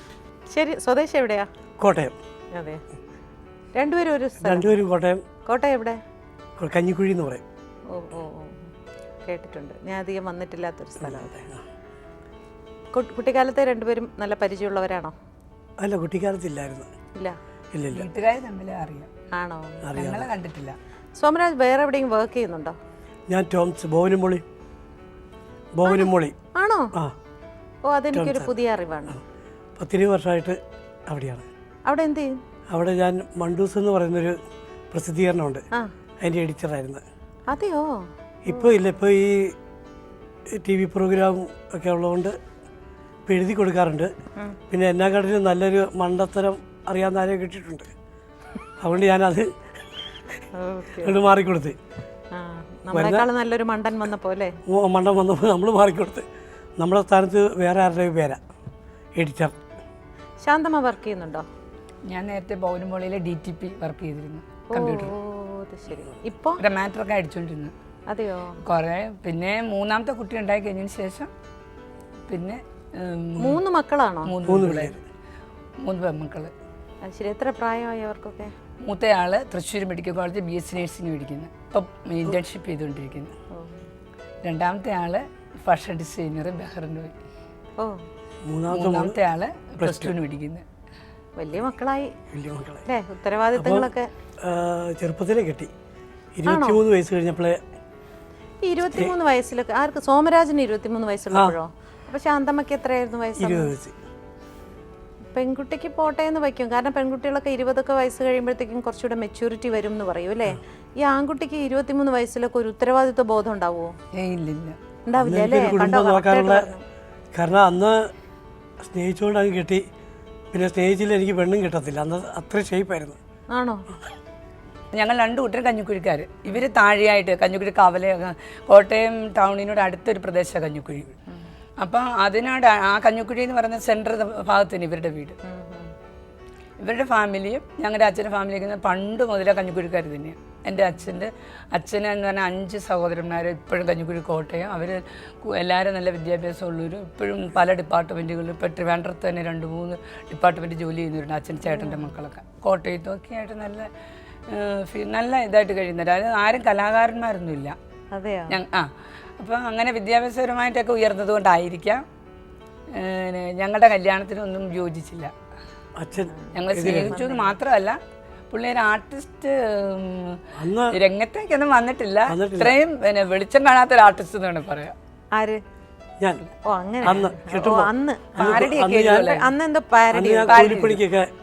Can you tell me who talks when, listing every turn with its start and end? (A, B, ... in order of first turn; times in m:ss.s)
0:00.5-0:01.5 A
0:01.8-0:02.2 B
0:02.5-0:02.8 A
0:03.8-0:04.7 A
0:04.4-0:05.2 B
0:05.5-0:06.0 A
0:06.6-0:07.4 B
0:07.9-0:08.6 A
0:09.2-0:11.3 A
0:11.0-0:11.6 B
0:12.9-0:15.1 A
0:15.8-0:16.9 B
0:17.7-0:18.1 B
0:17.9-0:19.1 C
0:19.4-0:19.9 A
0:19.8-0:20.3 B
0:19.9-0:20.8 C
0:21.2-0:22.8 A
0:23.3-0:24.4 B
0:25.8-0:26.4 B
0:25.8-0:26.9 A
0:27.9-0:29.2 A
0:28.1-0:28.5 B
0:29.8-0:31.5 B
0:31.9-0:32.4 A
0:32.7-0:34.4 B
0:34.9-0:35.6 B
0:36.2-0:37.0 B
0:37.5-0:38.7 A
0:38.4-0:39.6 B
0:40.5-0:42.4 B
0:43.3-0:44.1 B
0:44.7-0:47.9 B
0:48.8-0:49.5 B
0:50.6-0:51.2 A
0:51.0-0:51.8 B
0:52.3-0:54.6 A
0:52.9-0:53.3 B
0:54.7-0:56.3 B
0:56.8-0:58.4 B
0:59.2-0:59.6 B
1:00.4-1:01.5 A
1:02.1-1:05.1 C
1:04.7-1:06.6 A
1:06.6-1:07.7 C
1:08.1-1:08.6 A
1:08.6-1:11.3 C
1:12.3-1:13.6 C
1:13.4-1:14.3 A
1:14.3-1:15.0 C
1:14.4-1:15.0 B
1:15.8-1:16.5 C
1:17.0-1:18.5 A
1:18.8-1:23.3 C
1:23.5-1:23.8 A
1:24.4-1:27.1 C
1:28.4-1:29.2 B
1:28.7-1:30.6 C
1:29.8-1:30.1 B
1:31.4-1:32.1 A
1:32.3-1:32.8 B
1:32.9-1:34.1 A
1:33.6-1:33.9 B
1:34.4-1:35.7 B
1:36.4-1:37.6 B
1:36.5-1:36.8 A
1:38.6-1:43.7 A
1:43.4-1:44.0 B
1:45.4-1:54.0 A
1:54.1-1:54.8 C
1:55.1-1:56.8 A
1:55.2-1:56.7 B
1:57.3-1:58.1 B
1:58.8-1:59.8 B
2:00.5-2:03.2 B
2:03.5-2:03.8 A
2:05.0-2:11.1 C
2:11.8-2:15.4 C
2:15.4-2:15.9 A
2:16.8-2:33.9 C
2:31.6-2:32.2 A
2:34.5-2:37.8 C
2:38.1-2:38.6 A
2:38.5-2:42.0 C
2:42.9-2:45.3 C
2:46.0-2:47.2 B
2:46.3-2:47.6 A
2:46.5-2:48.0 C
2:48.5-2:50.4 C
2:50.6-2:51.0 B
2:50.9-2:55.0 C
2:52.3-2:52.8 B
2:55.3-2:55.6 A
2:56.2-2:56.4 B
2:56.7-2:58.5 A
2:57.0-2:59.4 B
2:58.4-2:59.5 C
2:59.2-3:00.9 A
3:00.1-3:01.3 B
3:00.5-3:01.0 C